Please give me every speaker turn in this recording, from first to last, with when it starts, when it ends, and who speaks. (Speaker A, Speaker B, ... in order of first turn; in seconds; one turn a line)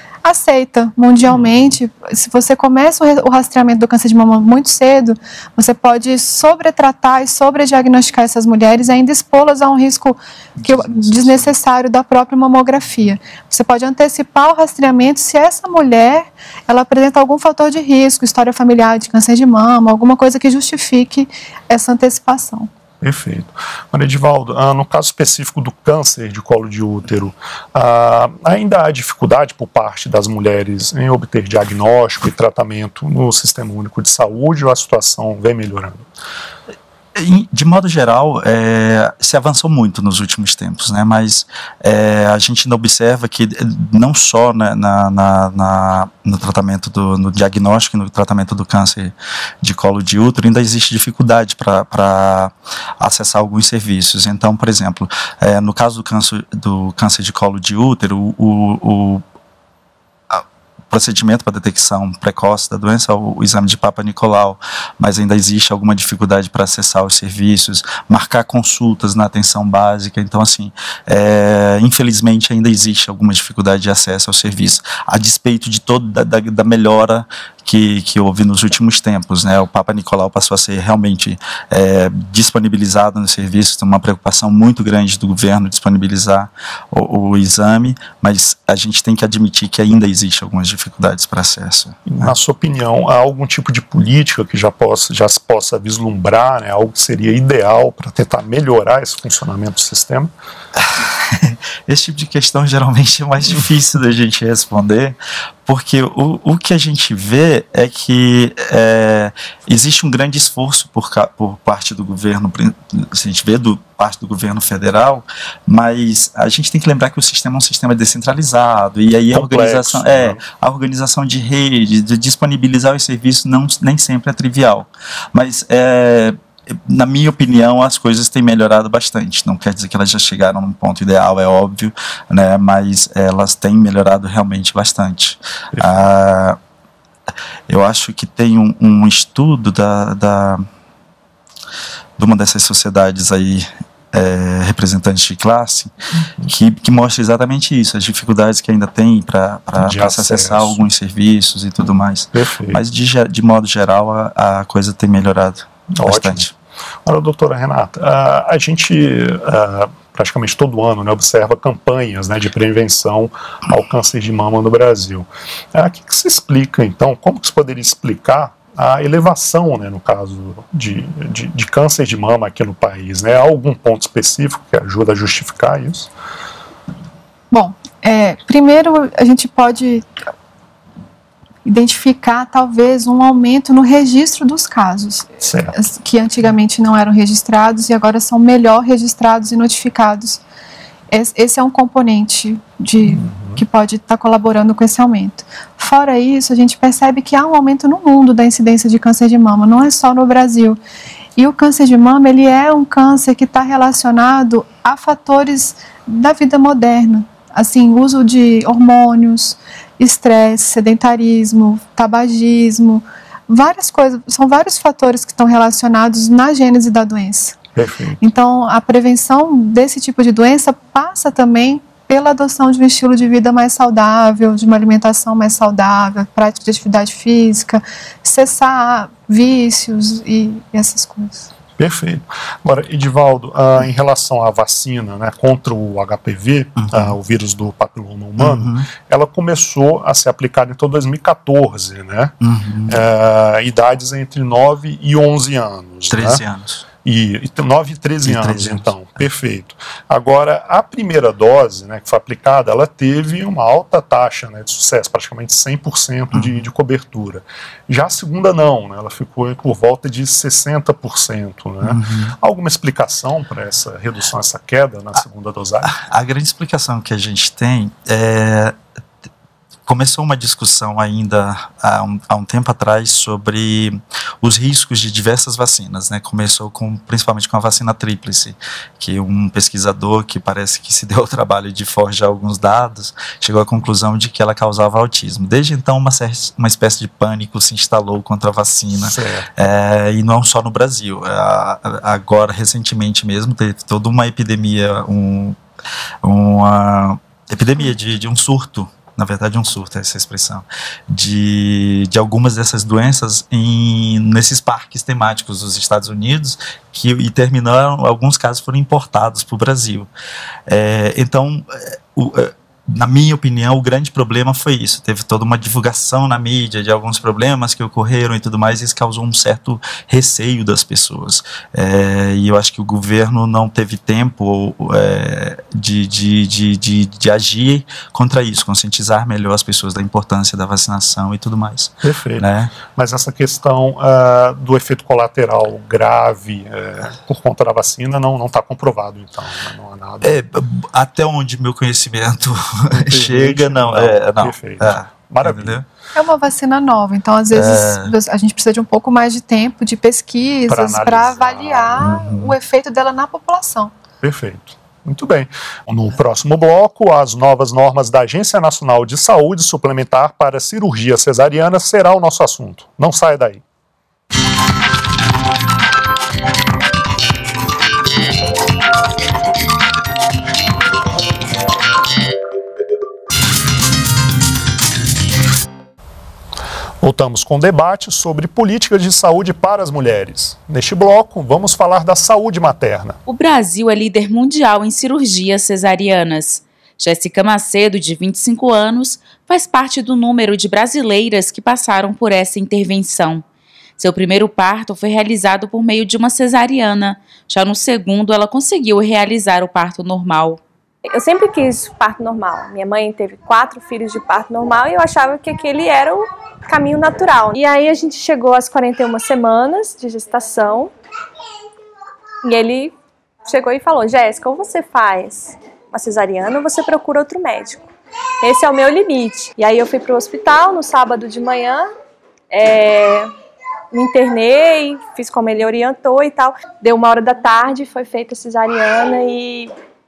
Speaker A: 0.2-22.7
Speaker B: 10.6-11.5
Speaker C: 23.0-36.1
Speaker B: 37.1-59.2
Speaker B: 60.3-92.3
Speaker C: 92.1-100.3
Speaker B: 100.8-136.6
Speaker C: 119.3-120.4
Speaker C: 135.7-136.0
Speaker B: 137.7-140.6
Speaker B: 142.2-145.9
Speaker B: 146.4-156.5
Speaker C: 149.8-150.8
Speaker C: 152.3-152.8
Speaker C: 155.9-156.5
Speaker C: 157.1-176.1
Speaker A: 177.5-180.1
Speaker A: 181.7-190.4
Speaker C: 185.4-185.8
Speaker A: 191.1-200.8
Speaker C: 193.1-193.6
Speaker A: 201.4-217.6
Speaker C: 217.8-218.2
Speaker A: 218.2-231.5
Speaker C: 231.8-242.3
Speaker B: 236.8-237.2
Speaker B: 238.4-238.9
Speaker B: 242.4-243.0
Speaker C: 242.9-246.4
Speaker B: 246.1-246.8
Speaker C: 247.1-265.9
Speaker B: 248.2-248.9
Speaker B: 261.8-262.4
Speaker B: 265.8-268.8
Speaker B: 269.9-295.6
Speaker C: 289.0-289.5
Speaker B: 296.2-310.1
Speaker B: 310.7-332.7
Speaker C: 332.0-340.4
Speaker B: 340.2-345.8
Speaker C: 342.9-345.8
Speaker A: 346.1-353.9
Speaker B: 347.5-348.1
Speaker C: 350.7-352.2
Speaker B: 352.0-352.6
Speaker C: 354.2-363.6
Speaker C: 377.0-383.2
Speaker D: 383.3-393.4
Speaker D: 394.0-400.6
Speaker E: 401.1-410.9
Speaker E: 412.4-412.9
Speaker E: 413.5-417.9
Speaker E: 418.4-421.9
Speaker E: 422.5-423.3
Speaker E: 423.9-429.7